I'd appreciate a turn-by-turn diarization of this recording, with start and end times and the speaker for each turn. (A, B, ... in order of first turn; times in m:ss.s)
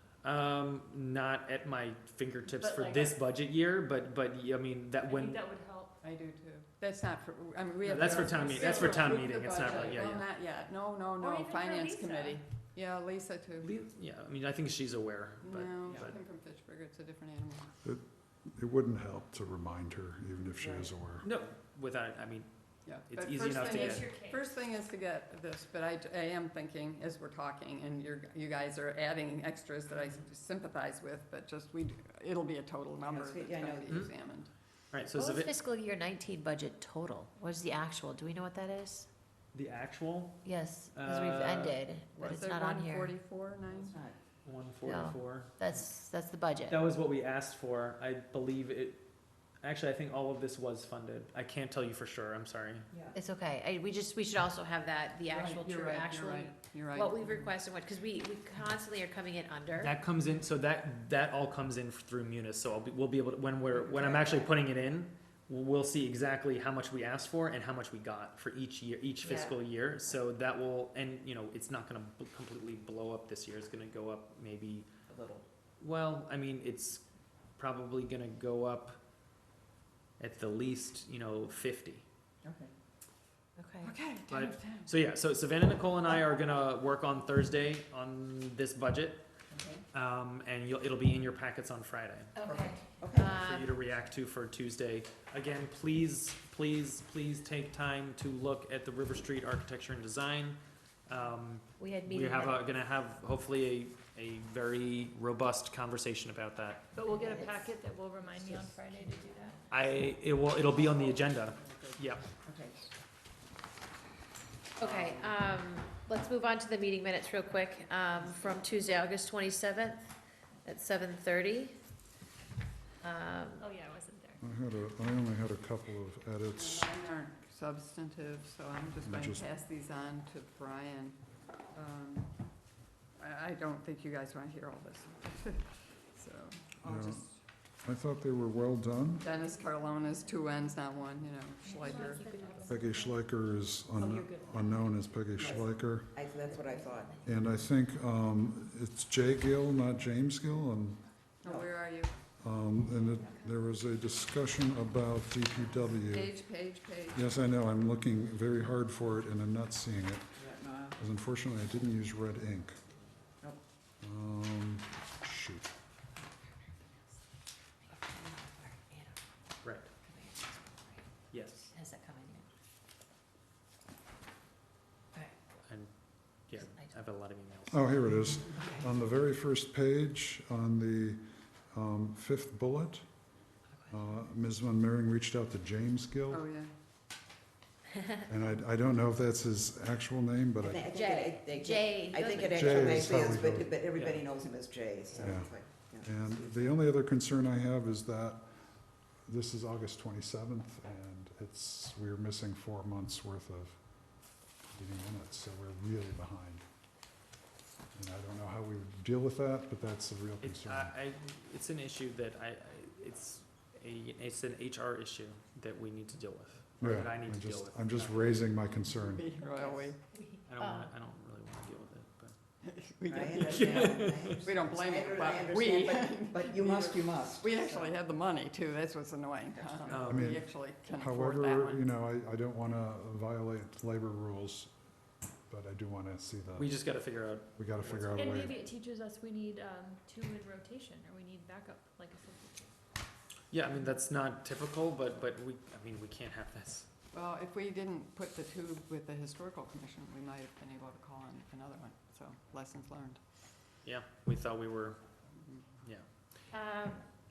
0:00.2-0:05.4 A
0:02.5-0:03.2 B
0:05.0-0:06.0 B
0:06.0-0:13.7 C
0:07.8-0:10.3 A
0:07.9-0:10.0 B
0:11.2-0:12.4 B
0:13.6-0:16.2 A
0:15.4-0:17.8 C
0:17.8-0:21.2 D
0:20.6-0:20.9 E
0:21.2-0:22.5 A
0:22.8-0:34.5 C
0:23.0-0:24.1 A
0:23.4-0:24.6 B
0:33.0-0:34.2 E
0:34.9-0:35.5 A
0:35.1-0:39.1 F
0:39.5-0:41.8 A
0:40.4-0:43.2 F
0:42.2-0:44.0 C
0:43.7-0:44.2 E
0:44.4-0:45.9 A
0:44.8-0:46.8 F
0:46.7-0:49.0 A
0:49.6-0:52.9 A
0:53.1-0:59.9 F
0:55.3-0:57.5 C
0:59.8-1:14.9 A
1:03.9-1:04.4 F
1:09.2-1:09.6 F
1:15.1-1:15.4 E
1:15.8-1:17.0 A
1:17.6-1:19.0 A
1:20.2-1:22.0 A
1:22.4-1:22.7 E
1:23.6-1:23.9 F
1:23.8-1:24.9 C
1:24.3-1:29.2 A
1:29.5-1:29.8 E
1:29.9-1:32.3 A
1:32.3-1:33.7 F
1:32.4-1:33.3 E
1:33.1-1:46.9 A
1:41.8-1:42.6 F
1:46.9-1:49.6 B
1:47.1-1:47.7 F
1:48.7-1:49.7 F
1:49.7-1:52.3 A
1:52.4-1:52.8 E
1:54.8-2:00.1 F
1:54.8-1:55.3 A
2:00.6-2:01.8 F
2:03.0-2:03.7 F
2:03.6-2:04.4 B
2:04.4-2:06.9 D
2:06.6-2:11.2 C
2:09.0-2:09.4 D
2:11.7-2:12.3 C
2:13.2-2:17.4 C
2:16.8-2:17.2 D
2:17.8-2:19.2 D
2:19.2-2:22.3 C
2:19.2-2:20.6 B
2:21.6-2:23.2 B
2:22.6-2:26.2 D
2:24.0-2:24.6 E
2:25.4-2:27.2 E
2:26.5-2:27.3 F
2:27.2-2:31.0 D
2:31.4-2:32.2 C
2:32.4-2:36.3 D
2:32.9-2:33.8 B
2:36.1-2:37.4 C
2:37.1-2:42.8 D
2:40.4-2:40.9 E
2:44.0-2:45.7 D
2:46.2-2:46.8 F
2:47.8-2:49.2 F
2:49.6-2:49.9 A
2:50.0-2:51.1 F
2:51.3-2:51.7 A
2:51.7-2:52.5 F
2:56.5-2:57.9 A
2:56.5-2:56.9 F
2:57.7-3:03.0 D
3:03.9-3:06.4 D
3:06.3-3:06.7 C
3:08.3-3:10.9 D
3:10.6-3:16.7 E
3:10.8-3:13.2 F
3:12.5-3:13.8 D
3:13.9-3:14.3 A
3:15.2-3:18.5 D
3:19.3-3:23.8 D
3:24.7-3:26.6 D
3:27.9-3:30.9 D
3:30.4-3:38.5 A
3:36.8-3:39.3 D
3:39.0-3:40.0 C
3:40.1-3:40.9 F
3:40.5-3:42.3 A
3:42.6-3:51.8 C
3:43.0-3:48.0 E
3:43.3-3:44.4 A
3:49.6-3:50.1 E
3:49.9-3:50.4 A
3:50.0-3:54.7 D
3:55.5-3:56.8 D
3:56.6-3:58.5 A
3:57.6-3:58.6 D
3:58.1-4:02.7 B
4:03.5-4:06.9 A
4:07.1-4:13.2 C
4:13.8-4:15.0 A
4:15.3-4:15.6 C
4:16.5-4:17.0 F